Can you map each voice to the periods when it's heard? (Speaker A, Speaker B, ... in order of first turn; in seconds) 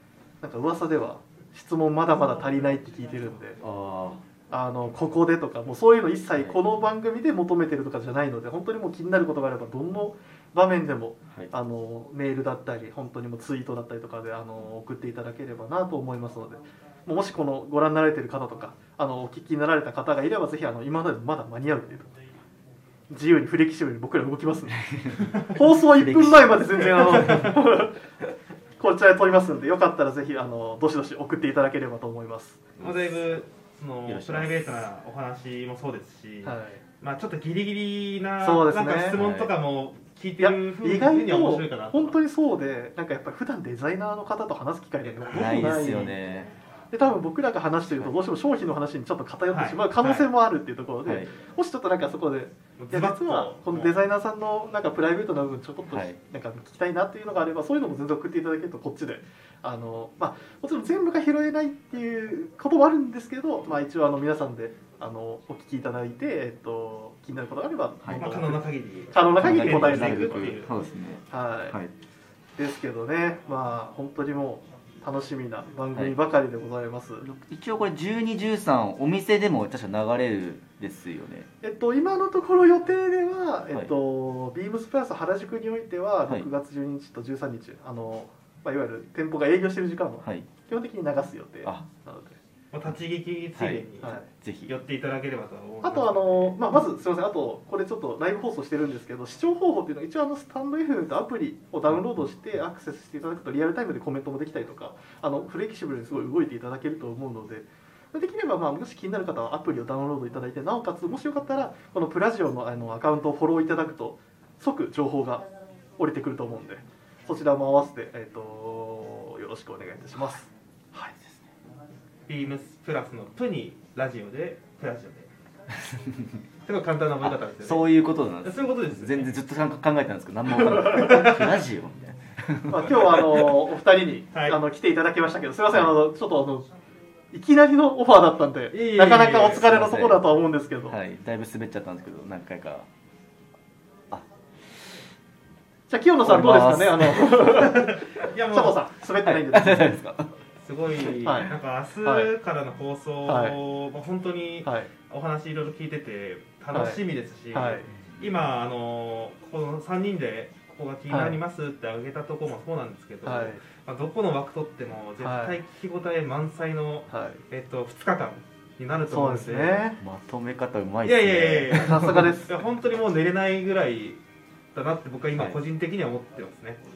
Speaker A: 0.4-3.6, 4.5-22.2, 23.1-28.0, 28.8-32.6, 36.4-36.8, 38.4-39.2, 40.4-46.2, 46.9-70.6, 71.3-71.8, 72.6-77.3, 81.6-92.4, 94.0-94.2, 95.8-115.5, 116.0-121.1, 130.6-131.2, 132.7-136.7, 137.3-141.0, 145.9-150.0, 151.2-152.3, 153.3-153.6, 154.6-154.9, 156.7-157.0, 157.5-157.9, 161.1-161.4, 163.2-163.6, 165.2-165.6, 167.1-167.4, 169.1-170.0, 171.8-172.5
Speaker B: 3.6-4.2, 25.0-27.5, 32.8-33.3, 34.0-34.7, 39.1-39.5, 45.3-46.5, 51.0-51.3, 55.9-56.2, 68.0-68.5, 69.4-71.9, 77.2-81.5, 90.2-90.5, 93.6-94.7, 126.0-126.3, 127.2-133.5, 139.5-140.2, 140.9-142.9, 146.2-147.4, 149.2-150.3, 170.0-172.3
Speaker C: 32.8-42.1, 45.0-46.2, 49.5-50.3, 52.8-53.9, 68.2-70.7, 92.7-96.5, 122.3-125.3, 126.6-129.3, 130.8-131.6, 134.3-134.6, 138.7-139.6, 147.4-148.8, 150.6-169.8, 171.0-174.2, 174.7-176.8